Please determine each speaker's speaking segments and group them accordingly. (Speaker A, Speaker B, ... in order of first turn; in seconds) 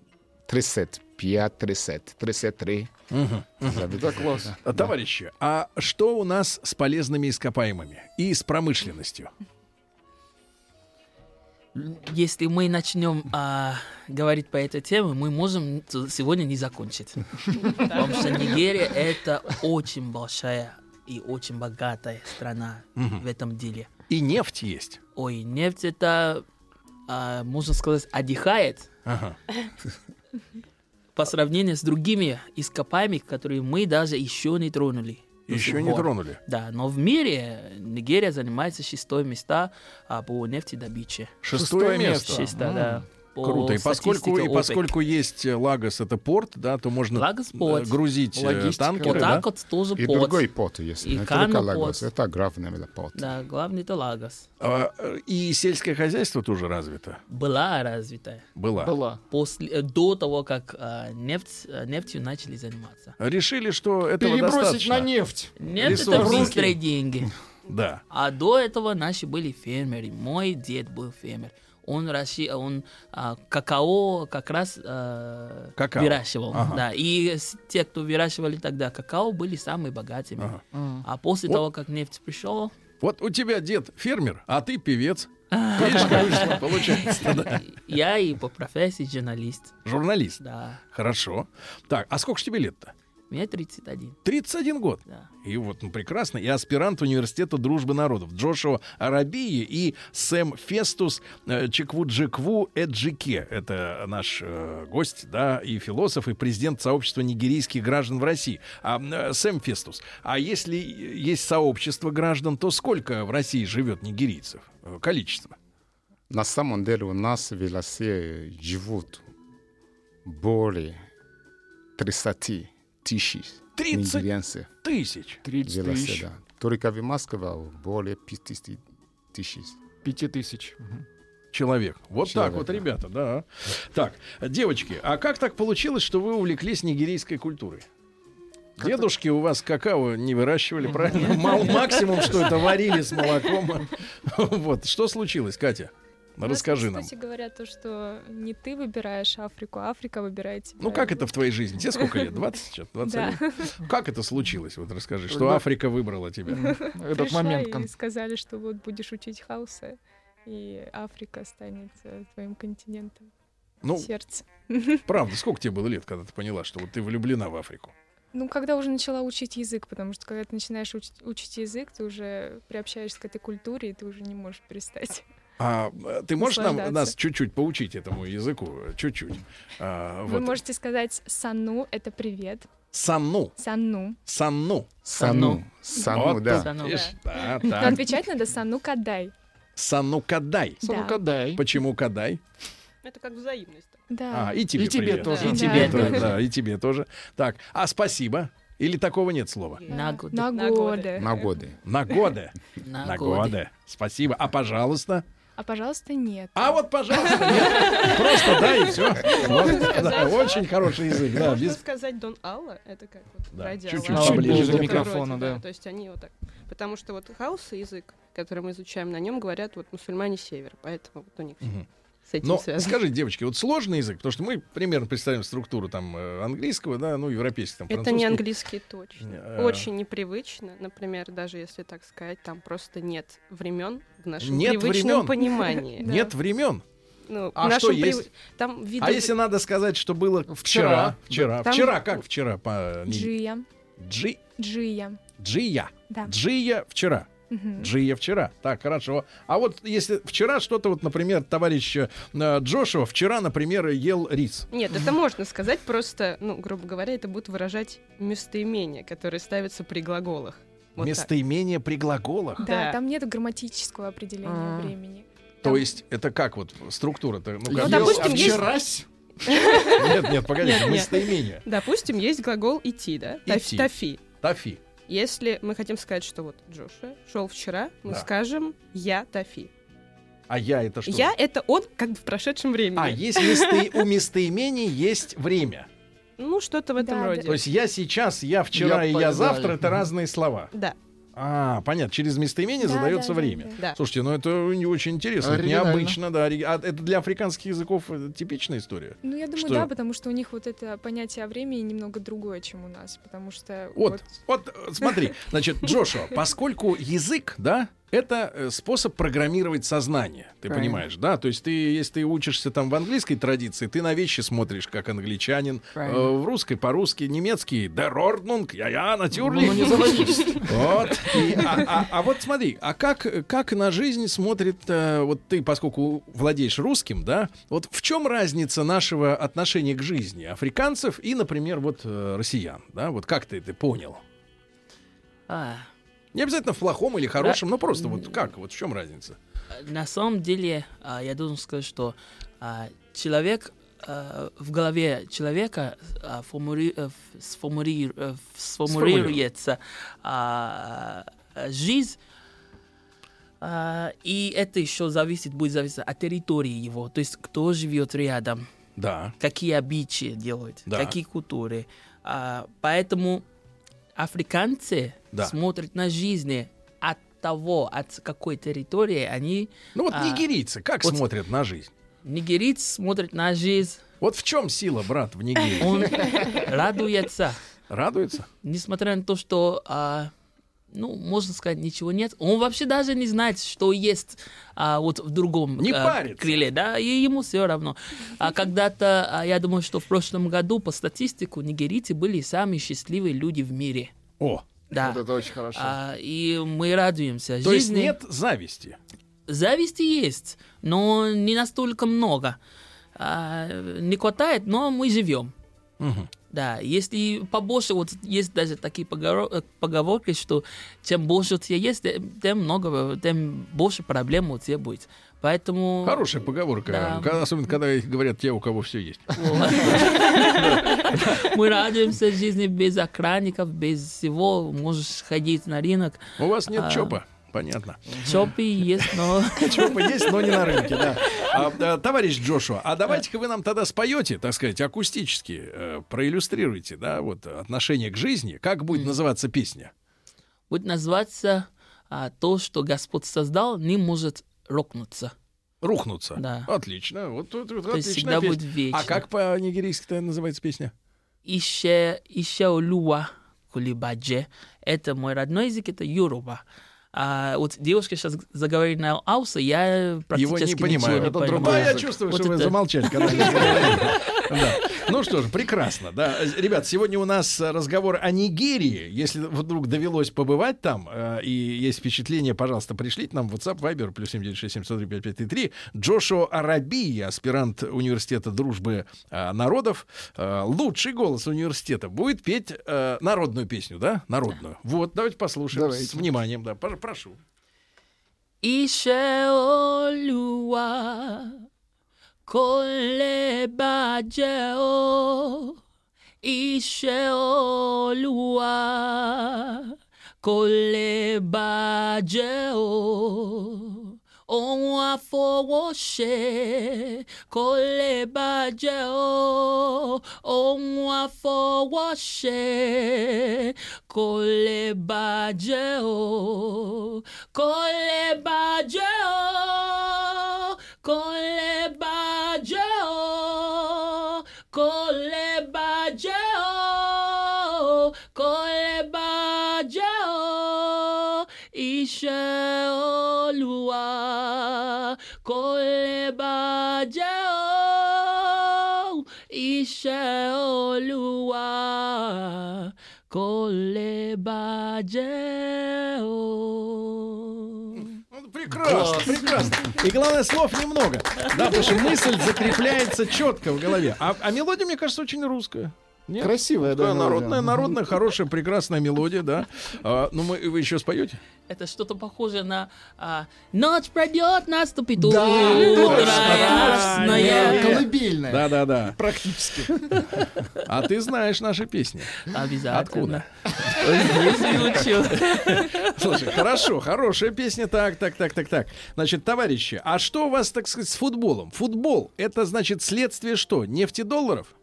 Speaker A: 0.5-2.9, 3.6-4.9, 50.0-53.4, 116.3-119.2, 120.2-121.0, 122.0-124.7, 125.6-128.8, 129.3-129.8, 132.2-132.8, 185.0-186.7, 201.2-201.8
Speaker B: 3.1-3.9, 4.6-9.3, 22.9-23.2, 24.1-25.0, 29.1-29.4, 35.5-36.4, 41.4-42.5, 43.4-49.5, 54.6-57.2, 58.5-58.9, 63.2-65.1, 65.8-66.7, 67.7-68.0, 75.8-76.8, 83.0-87.6, 89.8-90.4, 90.9-92.9, 94.2-115.5, 123.8-124.2, 124.8-125.4, 131.5-137.8, 138.8-147.1, 150.8-156.8, 163.8-164.1, 165.1-167.9, 175.6-180.6, 182.9-183.6, 184.2-184.9, 186.1-188.1, 189.8-190.8, 191.6-192.4, 194.3-199.8, 201.8-205.2, 206.5-211.8, 213.5-215.1, 222.4-228.5, 229.2-229.9, 234.4-235.4, 236.0-236.8, 237.5-238.3, 239.0-243.3, 244.0-244.4, 245.4-254.7, 261.0-262.6, 265.6-268.7, 269.8-271.6, 273.4-274.8, 280.5-281.3, 282.9-285.9, 287.4-290.7, 291.4-299.9, 303.9-334.2, 336.3-339.4, 348.9-349.4, 359.0-359.3, 360.9-361.1, 369.9-371.9, 374.2-376.2, 377.9-378.5, 385.8-386.6, 394.4-394.6, 397.6-399.0, 406.0-406.3, 416.0-421.4, 426.4-428.2, 429.4-439.9, 445.8-450.9, 460.3-487.4, 548.0-561.4, 565.6-569.2, 570.7-584.7
Speaker C: 3.9-4.5, 41.5-43.0, 48.3-49.4, 58.8-59.2, 64.2-66.7, 80.7-81.0, 85.8-87.3, 125.4-126.2, 130.0-131.0, 138.8-139.1, 140.9-141.4, 155.3-155.6, 156.7-157.9, 190.8-191.6, 194.7-196.3, 214.1-215.6, 240.5-241.6, 264.4-264.9, 267.6-269.1, 288.8-289.9, 295.4-296.2, 319.3-321.6, 394.9-396.0, 428.1-428.4, 461.0-462.2, 485.7-486.3, 548.7-549.9, 556.4-558.0, 565.1-570.2
Speaker D: 11.7-23.9, 25.1-26.4, 27.1-28.9, 31.1-41.4, 42.2-44.9, 47.1-48.0, 49.0-50.5, 51.0-52.1, 53.1-54.5, 57.3-58.4, 59.3-63.1, 65.6-67.3, 68.1-82.7, 85.5-89.7, 90.4-90.8, 93.3-94.2, 141.6-142.0, 185.2-187.1, 195.4-196.3, 199.9-200.5, 202.8-203.6, 214.1-214.9, 316.0-316.3, 319.9-320.3, 335.5-335.9, 337.4-338.4, 339.7-352.2, 353.6-358.6, 359.4-363.4, 364.1-370.5, 372.2-374.0, 375.8-377.6, 378.6-380.3, 380.9-394.1, 394.9-398.1, 399.5-402.6, 403.1-405.5, 406.5-416.2, 416.9-417.5, 419.3-427.1, 428.2-431.5, 438.9-439.2, 440.7-445.3, 446.4-446.7, 447.9-449.2, 451.4-456.6, 457.1-464.4, 488.6-491.6, 492.4-495.8, 496.4-548.1, 561.7-568.0, 572.4-576.4
Speaker E: 17.8-18.4, 186.8-187.1, 193.0-194.1, 195.2-195.5, 199.8-201.2, 207.7-223.0, 227.9-236.1, 237.2-239.3, 241.6-242.1, 254.7-261.3, 262.6-263.0, 267.7-268.7, 269.4-274.3, 275.1-279.7, 281.1-283.9, 286.4-287.6, 290.7-291.0
Speaker F: 146.4-152.4, 153.0-153.8, 156.5-163.3, 164.0-165.0, 168.3-175.2, 176.4-177.1, 180.3-182.7, 183.6-184.2, 187.6-189.3, 190.8-191.2, 194.1-194.7, 195.3-196.2, 199.9-201.5, 205.6-208.7, 209.3-209.8, 235.4-236.3, 243.1-243.7, 244.6-245.2, 247.5-247.9, 262.6-265.2, 287.0-287.6, 292.8-293.8, 299.2-304.3